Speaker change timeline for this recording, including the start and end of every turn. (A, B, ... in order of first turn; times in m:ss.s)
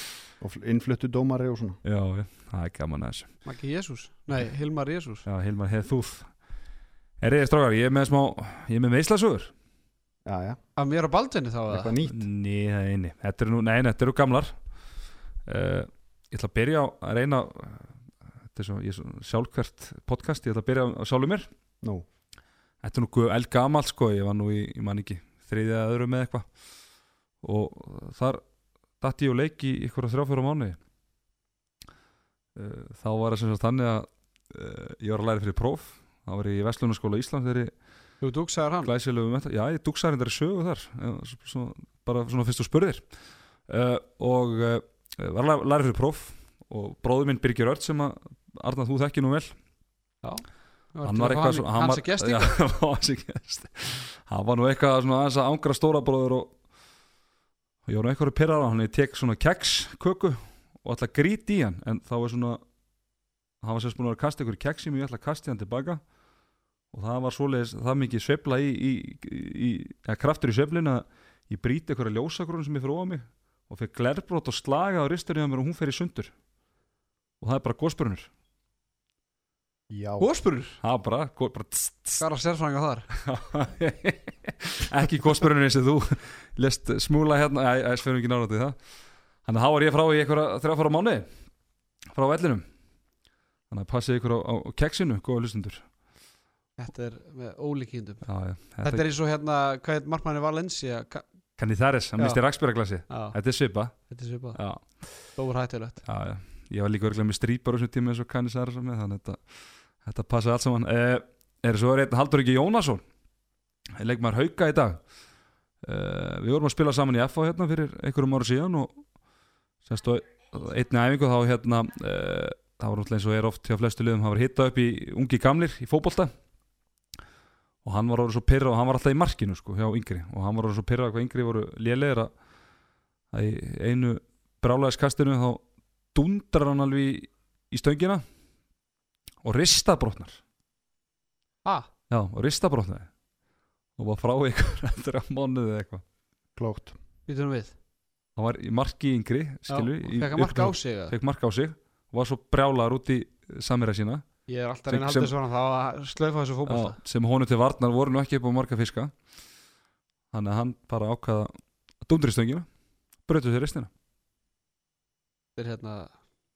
0:00.4-0:01.8 A
0:01.8-0:03.4 B
0:03.4-0:05.2 C
0:05.2-0:06.4 B
0:07.2-0:09.5 B
0:10.2-0:10.6 A
0:10.8-0:11.9 C
0:11.7-0:12.2 A
0:12.1-0:14.6 B
0:15.4-0:18.0 B
0:18.5-0:21.5 B
0:22.8-0:26.6 B
0:27.4-0:28.4 B
0:29.0-0:30.8 B
0:32.6-0:37.7 B
0:38.2-0:38.9 C
0:38.8-0:43.2 B
0:43.7-0:49.6 B
0:50.2-0:52.6 C
0:51.0-0:56.6 B
0:57.8-1:02.6 B
1:03.6-1:06.0 B
1:06.9-1:16.3 B
1:17.4-1:18.3 B
1:19.9-1:20.3 A
1:20.2-1:20.8 C
1:20.8-1:22.2 B
1:22.2-1:23.1 C
1:23.2-1:28.9 B
1:29.4-1:31.4 B
1:32.1-1:32.7 B
1:33.7-1:35.9 B
1:36.8-1:38.3 C
1:38.2-1:39.0 B
1:38.8-1:41.3 C
1:41.6-1:45.3 B
1:43.1-1:43.4 C
1:43.9-1:46.0 C
1:46.0-1:53.0 B
1:54.0-1:55.1 B
1:55.8-1:59.1 B
1:59.8-2:06.3 B
2:07.8-2:12.3 B
2:13.3-2:15.6 B
2:16.1-2:18.2 B
2:19.4-2:20.4 B
2:22.1-2:23.1 B
2:24.0-2:26.0 B
2:26.6-2:27.0 A
2:27.3-2:27.7 C
2:28.4-2:34.3 B
2:29.7-2:31.1 C
2:34.5-2:37.0 C
2:34.9-2:35.3 B
2:36.7-2:39.2 B
2:40.3-2:42.7 B
2:43.3-2:43.9 B
2:45.6-2:46.1 C